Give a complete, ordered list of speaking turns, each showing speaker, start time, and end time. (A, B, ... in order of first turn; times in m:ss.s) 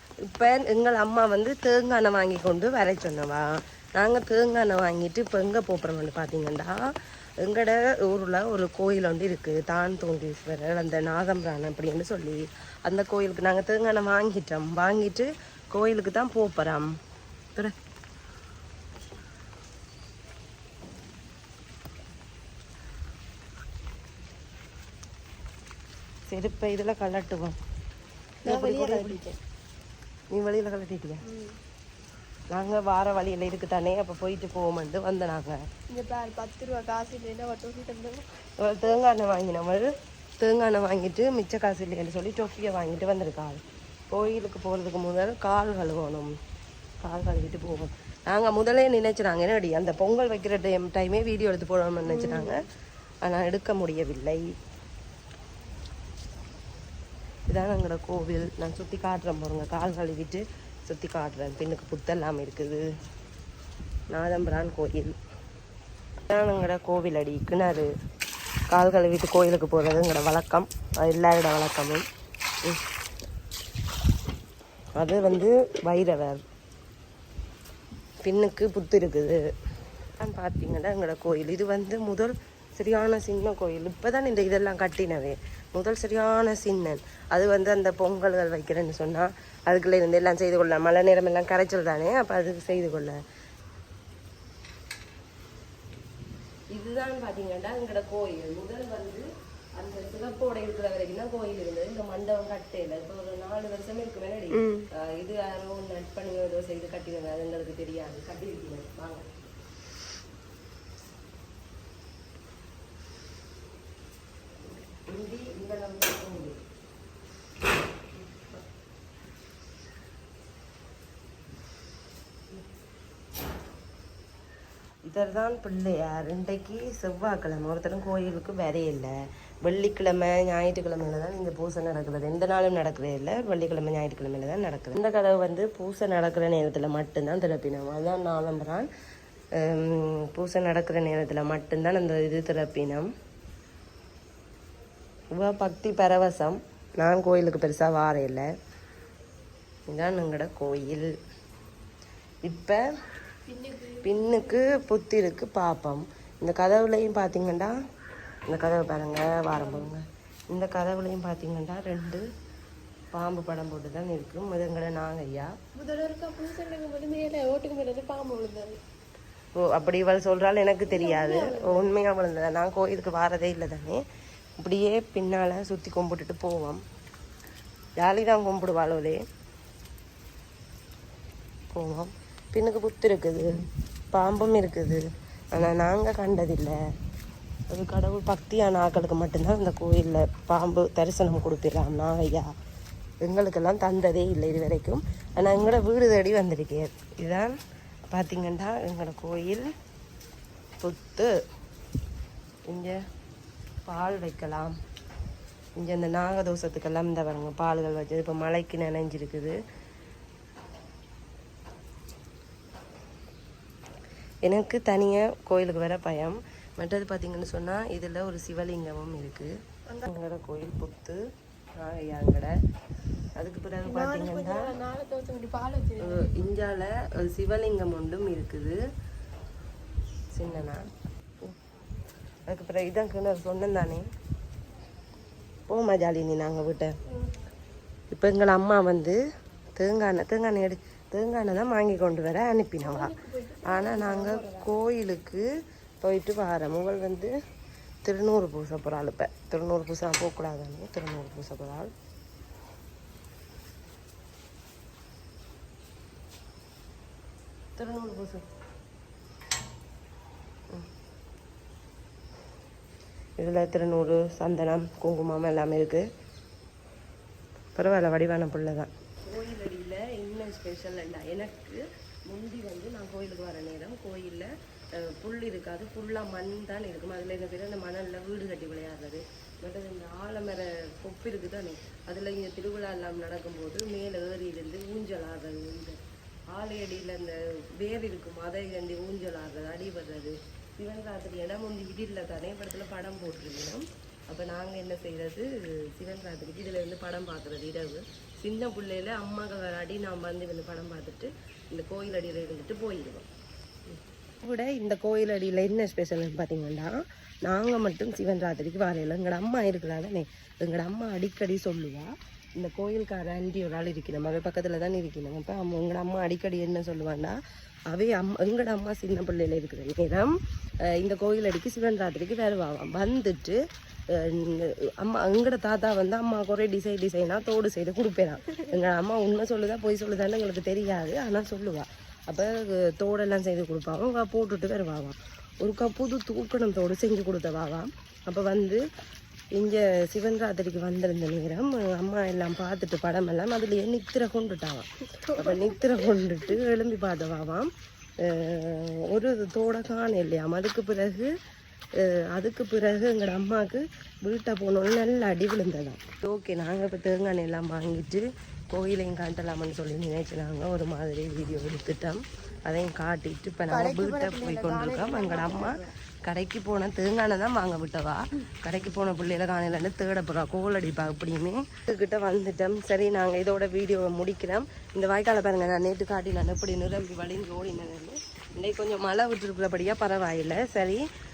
0:00.2-0:06.8 A
0:07.4-0:16.9 A
0:26.3-0:27.6 A
0:28.5-0:29.2 A
0:28.5-0:29.4 B
0:30.3-0:31.2 A
0:31.2-0:31.5 B
0:32.5-0:35.6 A
0:35.9-0:38.2 B
0:38.6-0:39.9 A
0:40.4-0:46.3 A
0:47.0-0:52.6 A
0:52.1-0:52.6 B
0:53.2-0:54.4 A
0:57.5-1:02.8 A
1:04.1-1:05.1 A
1:06.3-1:07.9 A
1:08.7-1:12.0 A
1:15.0-1:16.4 A
1:18.2-1:19.4 A
1:20.2-1:33.2 A
1:36.7-1:39.2 A
1:39.8-1:49.3 A
1:55.1-1:56.6 A
1:58.2-1:58.6 A
2:05.0-2:18.9 A
2:19.6-2:23.1 A
2:25.3-2:28.5 A
2:29.9-2:31.1 A
2:32.4-2:32.8 A
2:33.5-2:34.7 B
2:34.0-2:37.7 A
2:38.5-2:42.2 A
2:39.6-2:39.9 B
2:43.1-2:45.5 A
2:45.8-2:48.8 B
2:49.6-2:54.0 A
2:50.9-2:51.9 B
2:54.6-2:56.8 A
2:58.0-2:59.2 A
3:01.7-3:03.5 A
3:04.1-3:05.0 A
3:05.5-3:06.8 A
3:07.7-3:12.5 A
3:13.2-3:17.5 A
3:18.1-3:19.6 A
3:20.8-3:21.3 A
3:22.7-3:23.0 A
3:23.9-3:24.8 A
3:25.8-3:29.6 A
3:34.4-3:39.5 A
3:40.0-3:41.2 A
3:41.8-3:42.5 A
3:43.4-3:44.7 A
3:43.8-3:46.5 B
3:46.0-3:48.8 A
3:50.3-3:50.8 A
3:52.5-3:54.1 A
3:55.7-3:56.9 A
3:58.1-3:59.2 A
3:59.8-4:03.1 A
4:02.8-4:04.7 B
4:03.7-4:05.4 A
4:06.0-4:07.3 A
4:08.0-4:11.9 A
4:17.8-4:18.4 A
4:23.4-4:26.1 A
4:27.8-4:46.0 A
4:46.5-5:03.3 A
5:04.4-5:06.9 A
5:07.4-5:17.4 A
5:17.9-5:20.3 A
5:20.9-5:23.6 A
5:24.1-5:38.8 A
5:39.5-5:47.7 A
5:45.2-5:46.4 B
5:48.2-5:51.3 A
5:52.0-6:21.0 A
6:03.7-6:05.9 B